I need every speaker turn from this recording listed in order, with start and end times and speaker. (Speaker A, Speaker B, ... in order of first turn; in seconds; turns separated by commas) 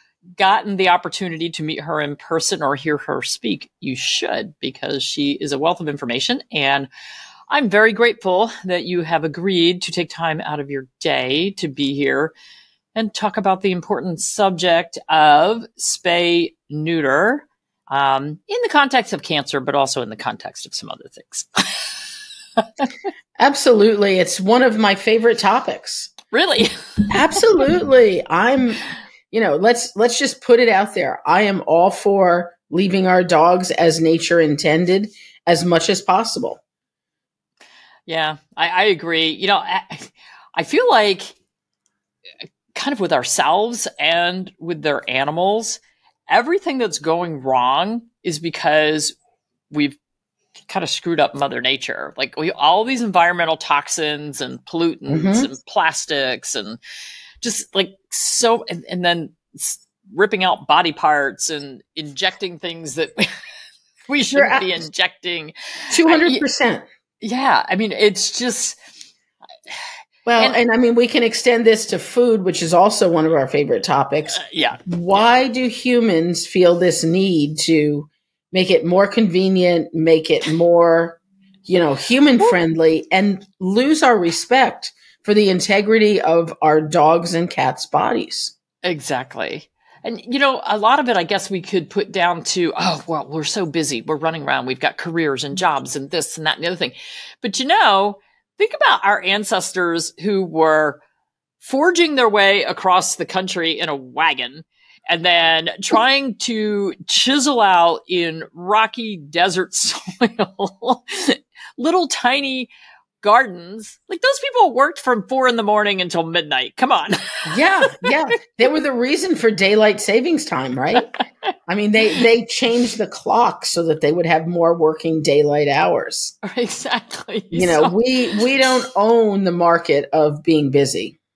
Speaker A: 0.4-6.9, Speaker A: 7.5-12.3, Speaker A: 12.9-21.9, Speaker A: 22.6-22.9, Speaker B: 23.4-26.1, Speaker A: 26.3-27.5, Speaker B: 27.1-36.6, Speaker A: 38.1-41.4, Speaker A: 42.7-49.1, Speaker A: 49.7-50.0, Speaker A: 50.7-56.8, Speaker B: 55.1-55.5, Speaker A: 57.4-63.3, Speaker A: 64.1-66.4, Speaker B: 64.3-64.8, Speaker B: 65.9-66.8, Speaker A: 67.2-68.8, Speaker B: 70.2-88.5, Speaker A: 74.3-75.2, Speaker A: 88.8-101.0, Speaker A: 101.6-118.1, Speaker B: 117.5-121.1, Speaker B: 121.7-126.3, Speaker A: 126.4-128.7, Speaker B: 127.5-131.2